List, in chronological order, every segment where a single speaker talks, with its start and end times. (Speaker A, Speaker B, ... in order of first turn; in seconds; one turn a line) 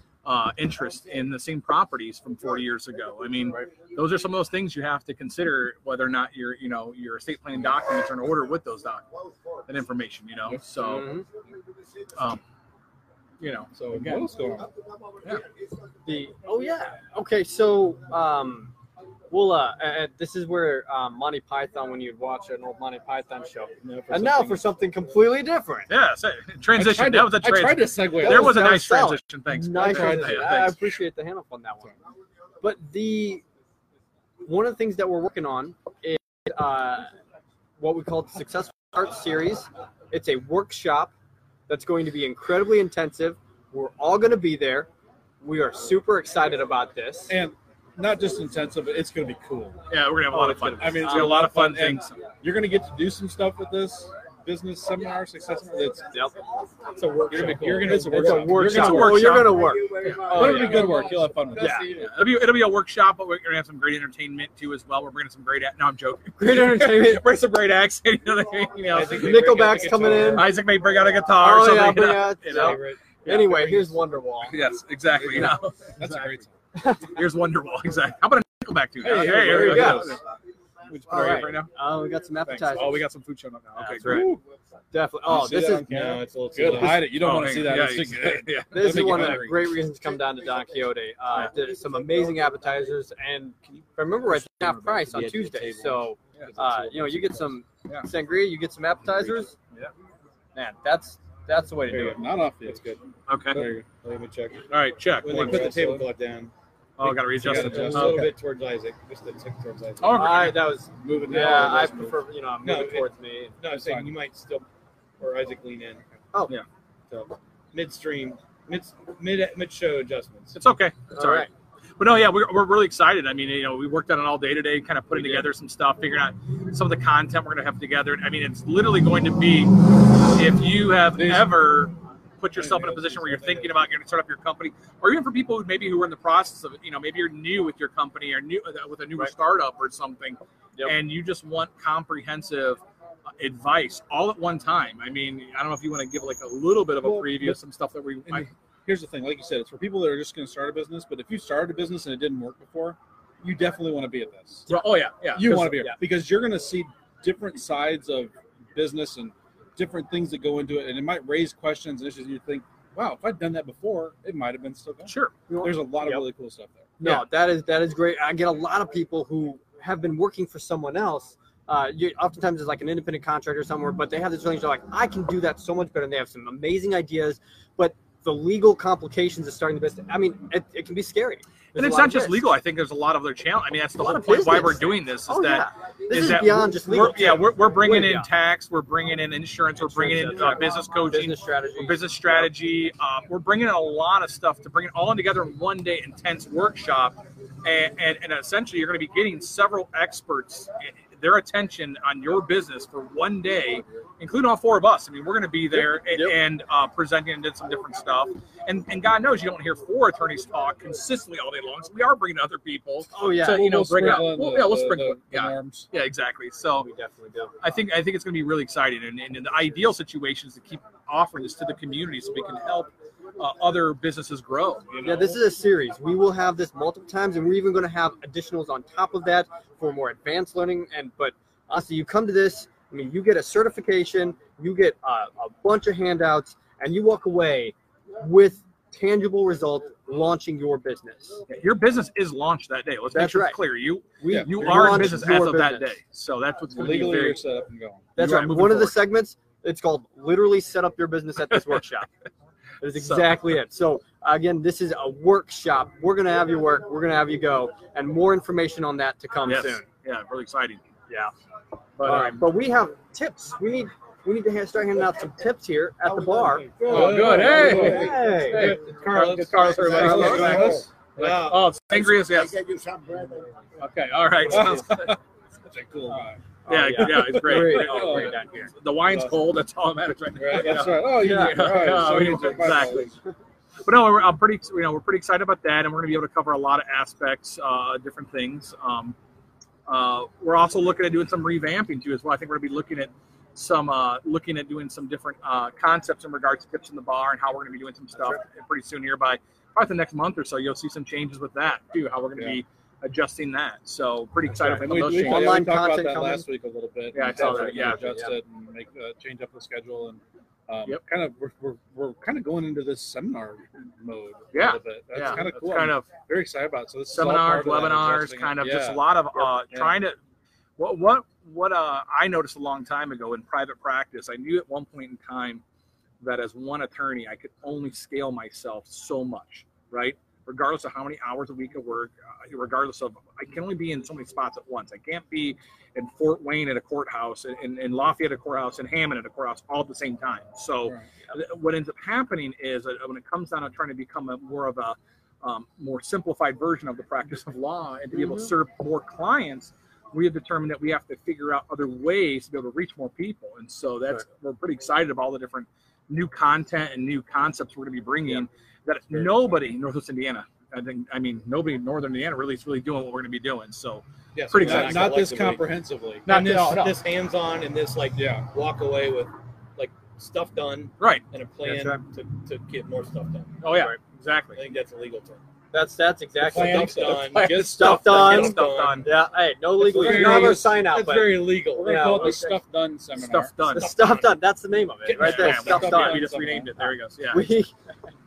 Speaker A: 0.2-9.1
Speaker A: 9.7-11.1
Speaker B: 10.8-11.3
Speaker A: 12.2-12.4
Speaker A: 13.4-14.3
Speaker C: 13.8-14.7
Speaker B: 16.1-18.7
Speaker B: 19.3-25.9
Speaker C: 23.8-24.6
Speaker A: 25.9-31.0
Speaker C: 26.8-28.6
Speaker B: 28.2-31.9
Speaker C: 29.8-30.7
Speaker B: 32.6-33.4
Speaker B: 34.4-37.1
Speaker B: 37.8-41.1
Speaker B: 41.7-44.9
Speaker B: 45.4-47.4
Speaker C: 47.3-49.8
Speaker A: 49.9-52.2
Speaker B: 50.3-51.4
Speaker C: 50.7-56.1
Speaker D: 57.0-59.1
Speaker C: 57.3-59.6
Speaker B: 57.8-61.9
Speaker A: 58.5-60.8
Speaker E: 60.2-62.1
Speaker C: 60.3-61.8
Speaker A: 61.9-72.8
Speaker B: 66.4-67.2
Speaker D: 68.9-70.6
Speaker B: 69.0-70.6
Speaker B: 71.3-74.6
Speaker D: 72.5-74.0
Speaker A: 74.5-76.4
Speaker C: 75.1-76.5
Speaker B: 76.8-77.0
Speaker A: 77.0-80.2
Speaker C: 79.0-80.2
Speaker B: 79.1-80.2
Speaker A: 80.9-81.7
Speaker B: 81.1-83.0
Speaker A: 82.5-84.3
Speaker B: 83.8-84.3
Speaker C: 84.0-84.4
Speaker B: 84.9-85.9
Speaker C: 85.3-89.7
Speaker D: 85.5-87.3
Speaker A: 86.6-89.5
Speaker B: 88.7-99.6
Speaker C: 94.3-97.6
Speaker B: 100.5-102.2
Speaker C: 101.9-103.0
Speaker D: 101.9-103.0
Speaker A: 103.3-103.7
Speaker C: 103.5-103.9
Speaker D: 103.5-104.7
Speaker A: 104.7-105.8
Speaker D: 105.2-106.5
Speaker C: 105.2-106.1
Speaker A: 107.0-108.3
Speaker C: 107.0-108.3
Speaker D: 107.4-110.5
Speaker A: 110.0-110.6
Speaker B: 110.1-113.6
Speaker C: 111.0-112.2
Speaker D: 112.6-114.7
Speaker C: 113.7-114.1
Speaker D: 115.2-116.1
Speaker B: 116.3-116.6
Speaker D: 117.1-120.6
Speaker A: 120.5-142.8
Speaker B: 121.1-121.5
Speaker C: 131.2-131.7
Speaker C: 132.6-133.7
Speaker A: 143.4-148.5
Speaker C: 147.0-147.6
Speaker C: 148.3-154.7
Speaker A: 154.7-155.8
Speaker C: 155.3-166.9
Speaker B: 155.7-156.0
Speaker A: 165.1-165.3
Speaker B: 165.5-166.3
Speaker B: 167.0-182.5
Speaker A: 181.8-216.9
Speaker B: 184.0-188.3
Speaker B: 189.8-192.5
Speaker B: 205.7-206.4
Speaker B: 213.1-214.2
Speaker C: 213.4-215.9
Speaker B: 216.8-217.5
Speaker A: 217.6-225.4
Speaker B: 225.0-241.4
Speaker A: 241.5-247.5
Speaker B: 243.1-243.6
Speaker B: 244.2-245.9
Speaker C: 244.3-245.3
Speaker C: 246.7-248.9
Speaker B: 248.2-252.1
Speaker A: 248.2-248.9
Speaker A: 251.5-252.0
Speaker B: 252.8-259.8
Speaker A: 252.9-253.4
Speaker A: 259.5-260.8
Speaker A: 262.0-262.5
Speaker B: 262.0-266.8
Speaker D: 266.8-272.3
Speaker C: 266.8-268.3
Speaker A: 266.9-272.6
Speaker B: 267.5-268.8
Speaker C: 269.9-270.9
Speaker B: 270.0-270.4
Speaker E: 272.4-273.6
Speaker A: 273.8-275.2
Speaker C: 274.4-276.4
Speaker B: 276.6-278.7
Speaker A: 276.7-283.1
Speaker C: 277.0-278.4
Speaker C: 279.1-279.4
Speaker C: 280.4-283.1
Speaker D: 280.4-280.8
Speaker B: 281.1-281.8
Speaker A: 283.9-289.2
Speaker A: 289.9-305.6
Speaker B: 298.1-298.4
Speaker C: 302.4-302.6
Speaker B: 304.5-306.5
Speaker C: 304.6-320.0
Speaker A: 307.1-308.1
Speaker B: 307.3-308.4
Speaker A: 314.5-316.1
Speaker A: 317.1-320.2
Speaker A: 320.8-325.6
Speaker A: 326.2-365.3
Speaker B: 348.1-348.5
Speaker D: 364.4-365.7
Speaker C: 364.6-366.3
Speaker A: 366.3-367.0
Speaker D: 366.3-373.6
Speaker C: 368.2-368.5
Speaker B: 371.6-372.0
Speaker A: 373.6-374.6
Speaker B: 373.7-374.0
Speaker D: 374.6-375.4
Speaker B: 375.7-382.6
Speaker A: 376.4-379.1
Speaker D: 376.4-379.1
Speaker C: 379.8-380.8
Speaker D: 379.8-382.4
Speaker C: 381.6-383.6
Speaker A: 383.1-384.1
Speaker B: 383.7-387.7
Speaker D: 383.7-384.4
Speaker A: 385.1-387.6
Speaker C: 385.2-386.7